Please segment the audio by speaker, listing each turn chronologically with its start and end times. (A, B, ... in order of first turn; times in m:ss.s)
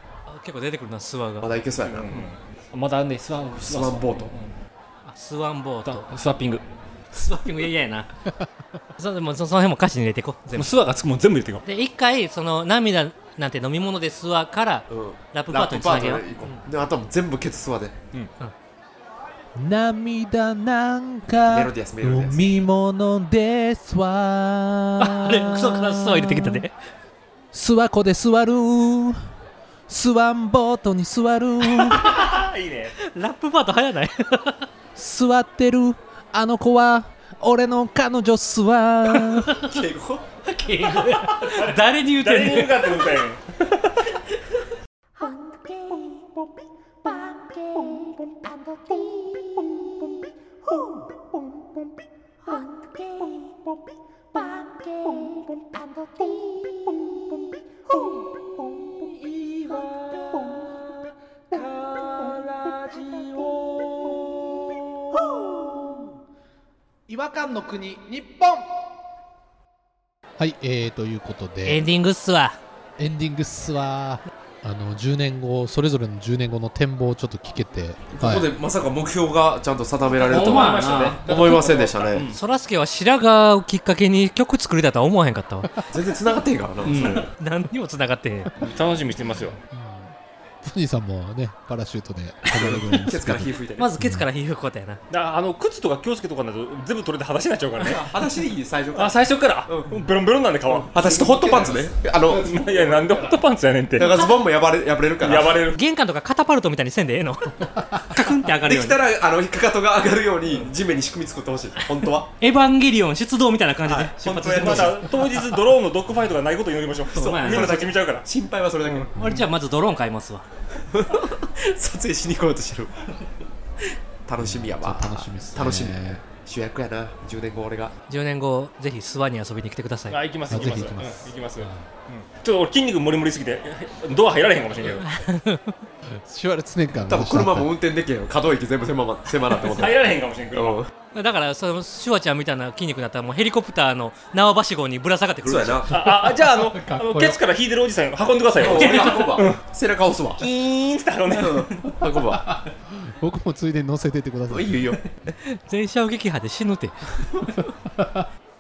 0:00.3-0:01.5 A
0:01.4-0:02.3 B
0:01.8-0:04.5 C
0:03.6-0:04.3 B
0:05.0-0:06.1 A
0:05.9-0:06.6 C
0:07.1-0:08.1 A
0:09.0-0:10.7 A
0:10.6-0:11.6 C
0:11.7-0:16.6 A
0:14.9-0:18.0 B
0:19.6-0:26.7 D
0:21.5-0:22.5 B
0:25.0-0:26.7 A
0:27.5-0:29.2 D
0:29.9-0:32.2 D
0:31.7-0:32.3 A
0:32.1-0:32.9 C
0:33.0-0:34.7 A
0:35.0-0:39.6 D
0:39.2-0:39.7 A
0:39.6-0:40.3 B
0:40.4-0:43.1 A
0:41.1-0:44.0 C
0:45.2-0:46.2 A
0:47.1-0:48.0 A
0:54.7-0:55.2 A
1:01.5-1:04.3 D
1:07.1-1:08.7 D
1:10.4-1:11.8 D
1:11.6-1:12.6 A
1:13.0-1:18.5 D
1:18.1-1:22.3 B
1:20.2-1:22.4 C
1:20.2-1:21.2 A
1:22.3-1:25.7 A
1:25.9-1:27.3 B
1:26.8-1:27.3 C
1:26.9-1:28.5 A
1:28.6-1:29.6 C
1:29.5-1:34.3 D
1:32.5-1:33.9 B
1:33.8-1:35.0 A
1:35.1-1:38.0 C
1:37.8-1:40.1 B
1:38.9-1:41.8 C
1:40.7-1:42.5 B
1:42.3-1:44.2 C
1:44.0-1:45.6 B
1:45.2-1:45.8 C
1:45.7-1:49.0 A
1:48.6-1:52.3 B
1:52.4-1:55.0 A
1:53.9-1:58.3 C
1:54.2-1:55.0 B
1:57.1-1:58.0 A
1:57.3-1:59.1 B
1:58.8-1:59.1 C
1:59.2-2:00.5 A
1:59.2-1:59.5 D
2:00.9-2:02.9 B
2:04.2-2:07.9 B
2:04.4-2:06.2 D
2:08.1-2:10.2 A
2:10.1-2:15.1 C
2:10.5-2:11.9 D
2:14.9-2:15.8 A
2:16.1-2:17.7 D
2:17.0-2:20.0 B
2:19.5-2:20.8 C
2:20.5-2:20.9 B
2:21.1-2:25.9 A
2:25.4-2:25.9 B
2:25.9-2:29.6 C
2:26.1-2:27.4 D
2:28.6-2:30.4 B
2:28.7-2:29.3 A
2:30.4-2:31.9 C
2:31.3-2:32.6 B
2:32.4-2:34.8 D
2:34.5-2:35.1 B
2:35.4-2:37.2 A
2:37.6-2:38.3 D